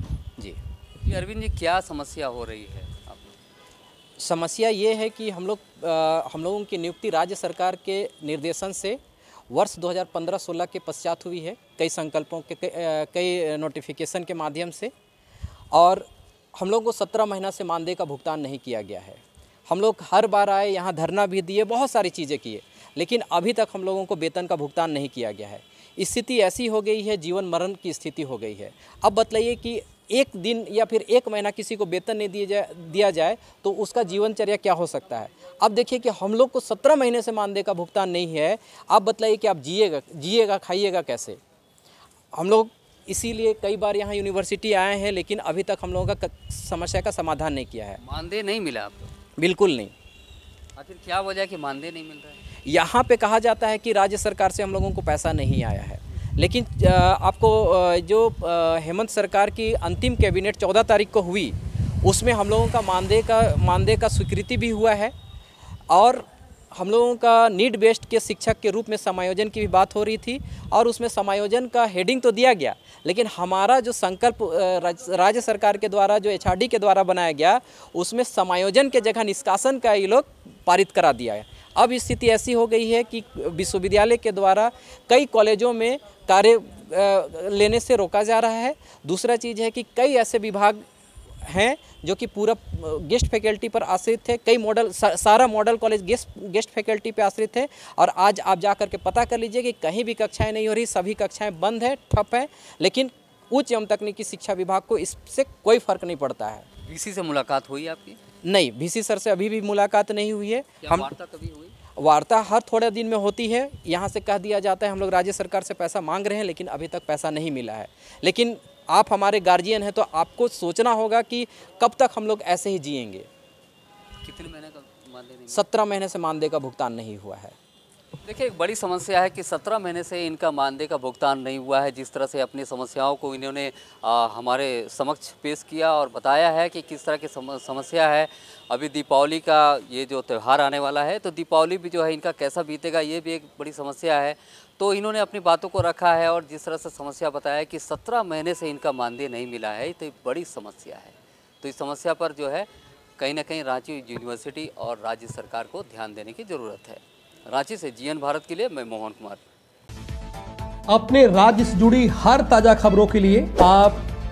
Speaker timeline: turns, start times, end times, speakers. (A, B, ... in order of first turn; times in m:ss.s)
0:01.0-0:03.3 A
0:04.2-0:09.0 B
0:09.5-0:14.9 B
0:15.7-0:41.4 B
0:42.3-0:48.0 B
0:48.0-0:49.1 A
0:49.4-0:49.9 B
0:50.8-0:52.4 A
0:52.6-1:05.1 B
1:05.9-1:30.8 B
1:31.4-1:46.7 B
1:46.8-1:48.2 A
1:48.4-1:51.1 B
1:50.8-1:51.7 A
1:52.0-2:03.3 B
2:04.2-2:05.6 A
2:05.5-2:07.6 B
2:08.2-2:39.5 A
2:40.9-2:44.0 C